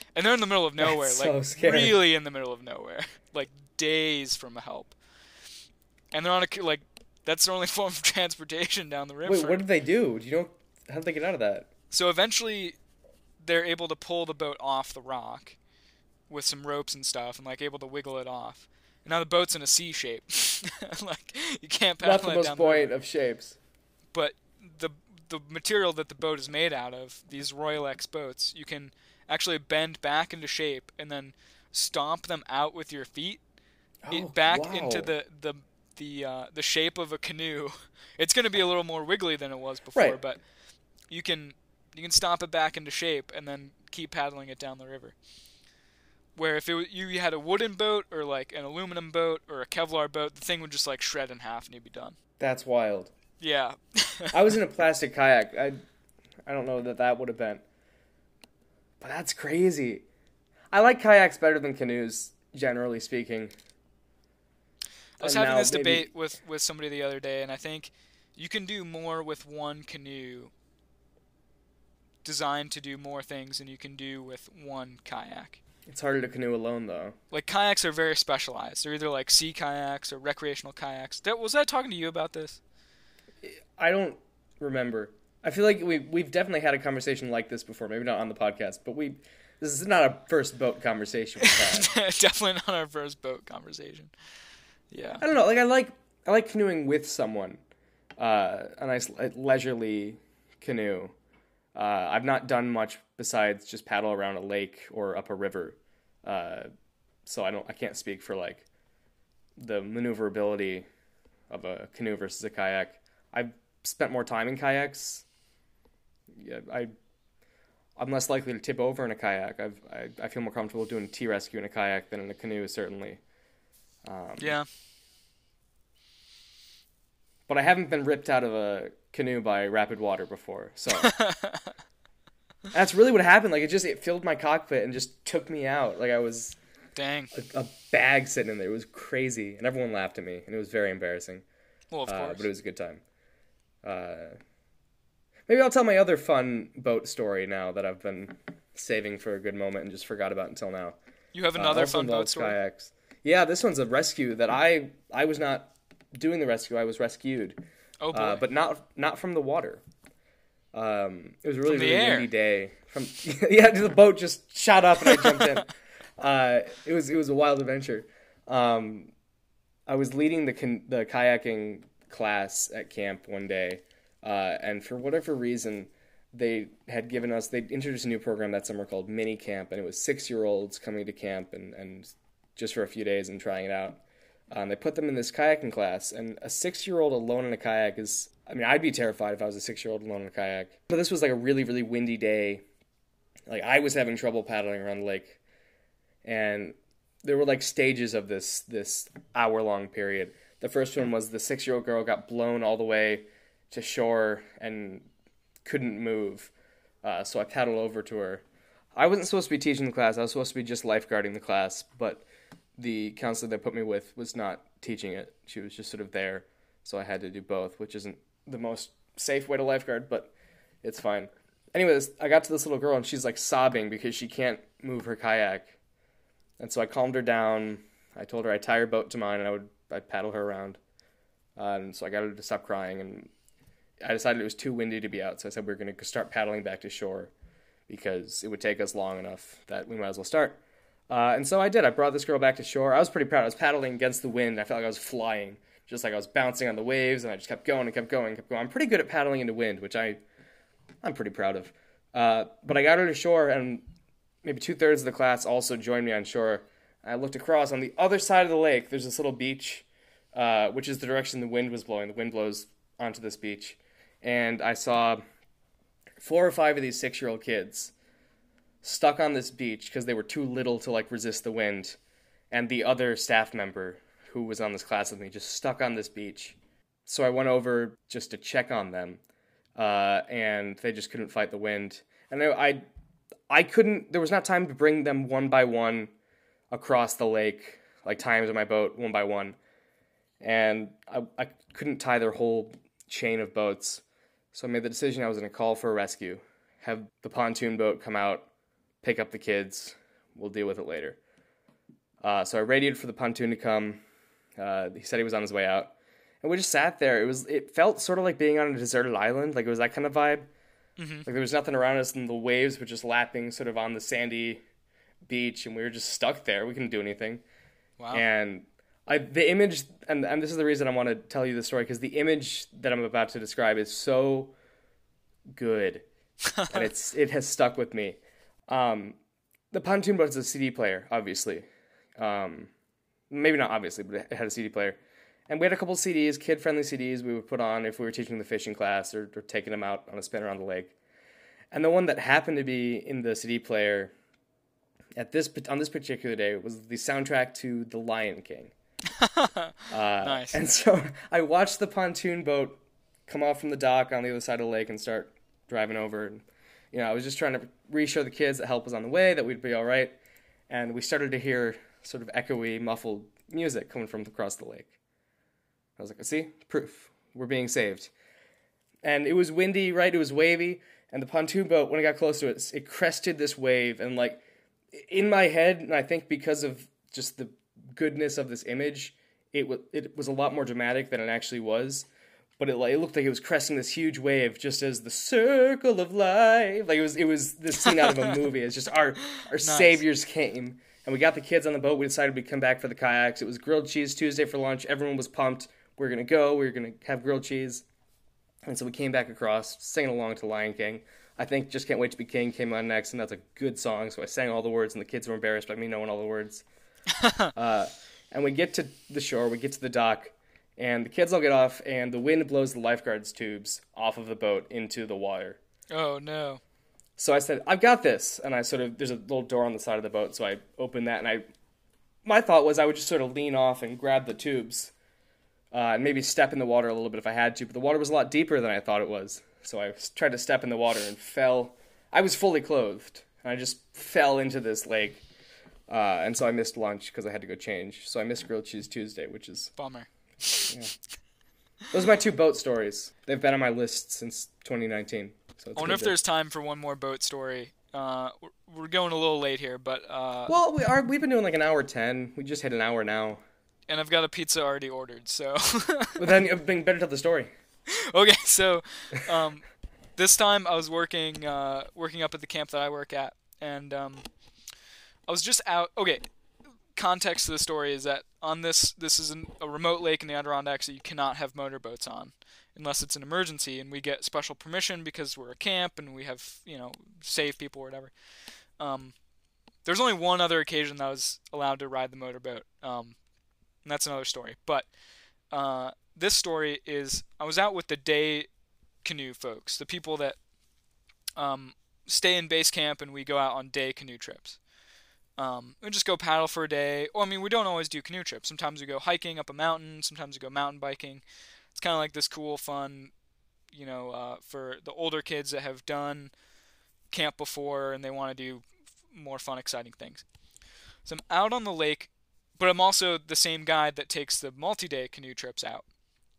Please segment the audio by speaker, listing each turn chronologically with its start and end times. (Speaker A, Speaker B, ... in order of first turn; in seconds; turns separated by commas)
Speaker A: 0.1-5.0, Speaker B: 0.8-2.0, Speaker A: 6.1-9.6, Speaker B: 9.2-11.7, Speaker A: 11.9-12.8, Speaker A: 13.4-15.6, Speaker A: 16.3-22.9, Speaker B: 22.0-23.6, Speaker A: 24.1-33.4, Speaker B: 34.0-35.1, Speaker A: 34.1-40.4, Speaker A: 41.1-45.1, Speaker A: 46.4-52.2, Speaker B: 52.4-53.1, Speaker A: 53.4-54.4, Speaker B: 54.3-55.8, Speaker B: 56.5-57.6, Speaker B: 59.0-60.0, Speaker B: 60.7-63.5, Speaker A: 65.2-70.5, Speaker B: 65.2-66.1, Speaker A: 72.2-75.6, Speaker B: 75.8-77.2, Speaker A: 77.3-82.6, Speaker B: 83.4-91.9, Speaker A: 91.4-94.1, Speaker A: 94.9-95.2, Speaker B: 95.2-97.6, Speaker B: 98.2-101.1, Speaker B: 101.7-106.7, Speaker B: 107.2-108.6, Speaker B: 109.6-110.8, Speaker B: 111.5-115.2, Speaker B: 116.3-116.9, Speaker B: 118.0-123.2, Speaker B: 124.0-124.5, Speaker A: 124.4-124.7, Speaker B: 127.5-131.1, Speaker A: 131.0-131.7, Speaker B: 132.7-136.6, Speaker A: 136.9-137.3, Speaker B: 137.3-141.4, Speaker A: 141.9-142.5, Speaker B: 142.1-143.0, Speaker B: 143.8-144.4, Speaker B: 145.5-151.0, Speaker A: 151.3-152.6, Speaker B: 151.6-157.6, Speaker A: 158.0-158.4, Speaker B: 158.1-159.8, Speaker B: 160.7-169.1, Speaker A: 161.7-162.3, Speaker B: 169.9-192.6, Speaker B: 193.5-195.4, Speaker B: 196.2-205.1, Speaker B: 205.6-206.5, Speaker B: 207.0-208.4, Speaker B: 208.9-212.2, Speaker B: 212.8-225.8, Speaker B: 226.6-230.8, Speaker B: 231.6-233.3, Speaker B: 234.0-237.3, Speaker B: 237.9-250.2, Speaker B: 251.0-253.8, Speaker B: 254.4-265.2, Speaker B: 266.2-267.9, Speaker B: 268.8-272.0, Speaker B: 272.5-279.2, Speaker B: 279.8-282.9, Speaker B: 283.5-286.1, Speaker B: 286.7-289.6, Speaker B: 290.4-298.5, Speaker B: 299.0-301.2, Speaker B: 302.2-304.0, Speaker B: 304.6-310.5, Speaker A: 311.0-311.2, Speaker B: 311.2-314.6, Speaker B: 315.3-317.4, Speaker A: 318.0-318.2, Speaker B: 318.1-324.5, Speaker B: 325.5-326.0, Speaker A: 326.5-326.9, Speaker B: 326.7-329.2, Speaker B: 329.7-331.6, Speaker B: 332.2-332.7, Speaker B: 333.3-340.9, Speaker B: 341.7-344.1, Speaker B: 345.1-348.7, Speaker A: 349.1-350.6, Speaker B: 349.9-360.2, Speaker B: 360.7-364.9, Speaker B: 366.0-368.1, Speaker B: 369.0-382.1, Speaker B: 382.6-397.9, Speaker A: 388.1-388.3, Speaker A: 389.4-390.0, Speaker B: 398.6-406.6, Speaker A: 407.1-407.5, Speaker B: 407.5-415.6, Speaker A: 415.9-416.6, Speaker B: 417.2-421.4, Speaker B: 422.2-424.9, Speaker B: 425.7-435.2, Speaker B: 435.9-439.7, Speaker A: 439.8-440.8, Speaker B: 440.7-440.9, Speaker B: 441.9-446.1, Speaker A: 445.8-450.6, Speaker B: 450.5-453.4, Speaker A: 453.9-456.3, Speaker B: 456.2-457.5, Speaker A: 457.9-459.6, Speaker A: 460.2-464.3, Speaker A: 465.3-466.2, Speaker A: 466.9-478.1, Speaker A: 478.8-479.1, Speaker A: 479.8-483.2, Speaker A: 483.8-484.9, Speaker A: 485.5-488.5, Speaker A: 489.0-490.4, Speaker A: 491.4-494.6, Speaker A: 495.4-501.2, Speaker A: 501.7-503.1, Speaker A: 503.7-506.3, Speaker A: 507.1-510.2, Speaker A: 511.0-515.9